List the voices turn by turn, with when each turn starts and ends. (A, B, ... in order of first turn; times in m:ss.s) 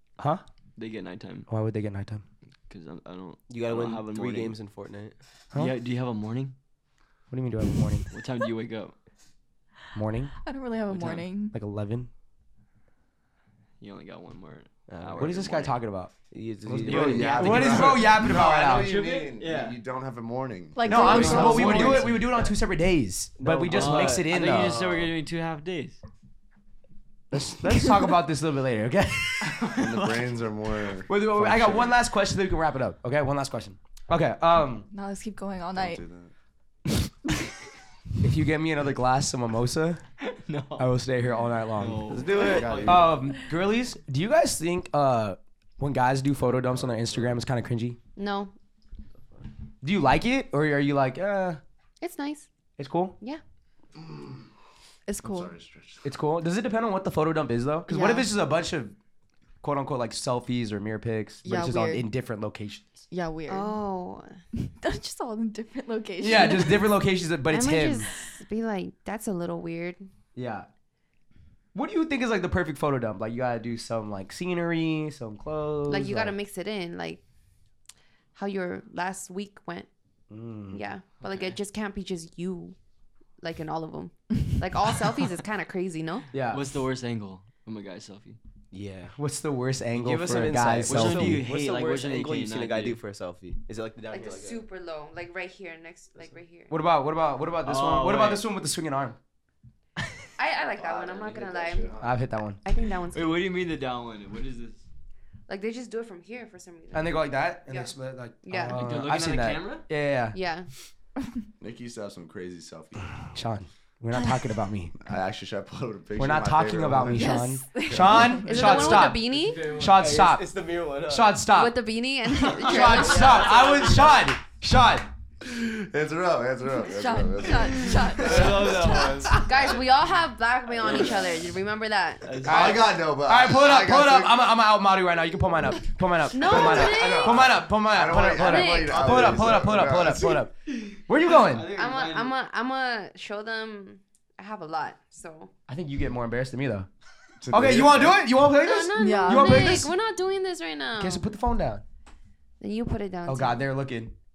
0:00.2-0:00.4 A
0:00.8-0:01.5 B
0:01.5-0:02.2 A
0:02.7-0:04.6 B
0:03.5-0:05.2 C
0:05.5-0:06.5 B
0:07.3-0:08.1 A
0:08.1-0:08.9 B
0:09.9-0:10.3 A
0:10.4-0:11.6 D
0:10.9-0:11.2 B
0:11.5-0:12.1 A
0:13.8-0:15.8 B
0:14.9-0:15.4 C
0:15.2-0:16.1 A
0:16.3-0:17.9 C
0:16.6-0:19.0 A
0:16.8-0:22.0 E
0:16.9-0:19.8 B
0:20.7-0:22.1 D
0:20.8-0:24.9 A
0:21.0-0:22.1 B
0:21.4-0:22.5 C
0:23.4-0:25.1 C
0:23.6-0:26.0 B
0:27.3-0:29.6 A
0:29.4-0:30.3 B
0:29.7-0:31.9 E
0:31.1-0:34.9 A
0:34.9-0:36.0 D
0:35.7-0:36.3 E
0:38.2-0:40.0 A
0:40.2-0:40.9 B
0:40.8-0:42.1 A
0:41.8-0:43.1 B
0:42.0-0:43.0 C
0:42.3-0:43.2 E
0:42.8-0:48.0 A
0:46.6-0:47.4 C
0:48.2-0:48.5 F
0:49.8-0:51.6 A
0:52.0-0:52.5 F
0:52.8-0:53.2 A
0:54.0-0:54.5 E
0:55.1-0:55.5 D
0:55.2-0:56.1 E
0:56.0-0:58.9 A
0:57.9-0:58.3 D
0:59.6-1:03.0 A
1:01.4-1:02.0 D
1:03.1-1:03.8 D
1:03.5-1:04.4 F
1:04.6-1:06.9 D
1:06.2-1:08.1 A
1:07.5-1:10.1 F
1:10.4-1:10.7 A
1:11.7-1:16.3 A
1:15.9-1:17.2 F
1:18.3-1:19.9 F
1:20.3-1:20.8 A
1:20.7-1:22.8 F
1:21.2-1:21.5 B
1:23.4-1:26.3 F
1:26.3-1:26.6 A
1:26.5-1:28.4 B
1:28.7-1:29.2 C
1:29.1-1:31.4 A
1:29.9-1:34.6 C
1:30.8-1:33.0 B
1:34.1-1:36.8 F
1:36.7-1:39.2 A
1:37.6-1:38.4 B
1:40.4-1:42.0 F
1:40.8-1:41.9 E
1:40.8-1:41.9 C
1:42.0-1:42.6 A
1:42.6-1:43.5 F
1:43.1-1:44.8 B
1:45.5-1:48.9 F
1:46.9-1:50.4 A
1:48.7-1:49.8 B
1:50.3-1:50.7 F
1:51.6-1:53.1 E
1:53.1-1:54.9 A
1:55.0-1:57.4 E
1:56.2-2:01.8 A
1:57.1-1:58.4 D
1:57.9-1:58.5 E
1:58.4-1:59.7 F
1:58.6-2:00.0 B
1:59.8-2:01.5 C
2:01.5-2:04.0 F
2:02.4-2:03.2 B
2:02.6-2:05.1 A
2:05.4-2:09.0 E
2:06.8-2:08.8 D
2:08.2-2:09.4 B
2:09.2-2:12.4 F
2:10.8-2:11.2 C
2:10.8-2:11.2 B
2:12.2-2:12.8 B
2:12.4-2:20.5 A
2:12.4-2:14.4 E
2:16.3-2:17.5 F
2:16.4-2:20.4 E
2:18.3-2:19.1 F
2:19.0-2:19.7 C
2:20.9-2:22.3 B
2:21.1-2:21.7 A
2:21.6-2:25.5 F
2:25.7-2:26.9 A
2:27.4-2:28.3 E
2:27.5-2:29.9 A
2:28.6-2:31.3 F
2:29.0-2:29.8 D
2:31.0-2:31.8 A
2:32.6-2:33.6 F
2:33.2-2:34.1 A